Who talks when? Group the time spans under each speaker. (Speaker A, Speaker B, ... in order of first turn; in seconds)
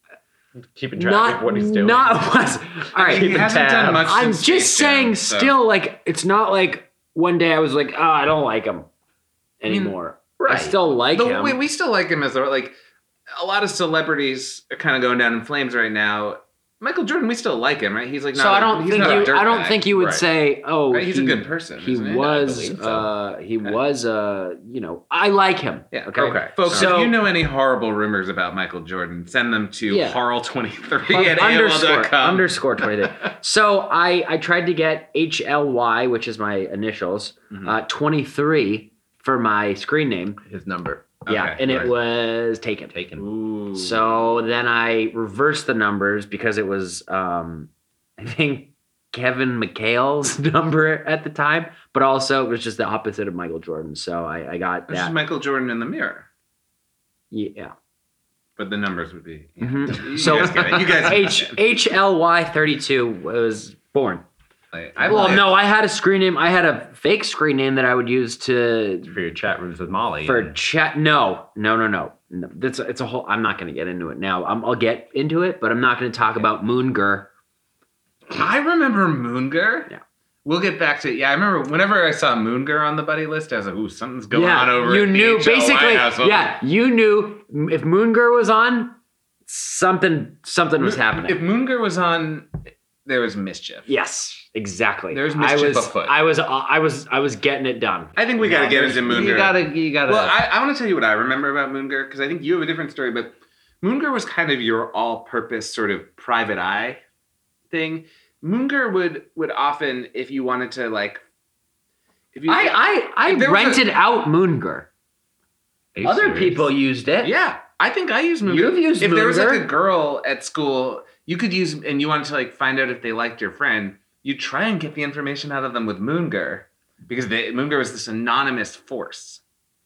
Speaker A: 0.6-2.5, 3.0-4.0, 10.4-10.8, 18.9-19.3, 19.9-20.2, 22.2-23.1, 26.1-26.9, 40.4-41.9, 42.9-43.3, 69.0-70.5, 98.4-100.4, 115.9-116.7
Speaker B: 0.9-8.9, 9.6-11.6, 18.3-27.2, 29.9-30.2, 31.1-40.4, 41.2-42.9, 43.7-55.1, 57.3-57.7, 59.6-64.2, 65.0-69.1, 70.2-77.3, 84.3-91.4, 93.9-99.2, 112.5-114.9, 116.0-117.3, 118.5-119.7
Speaker C: 3.0-5.6, 9.7-9.9, 11.1-12.8, 13.3-19.9, 20.9-22.4, 25.9-32.8, 41.2-41.9, 43.2-44.1, 54.9-56.3, 58.6-61.6, 64.7-65.5, 78.3-79.9, 80.4-86.6, 90.8-92.5, 93.0-93.9, 95.1-96.2, 98.2-107.0, 107.7-111.2, 112.3-113.9, 117.2-129.4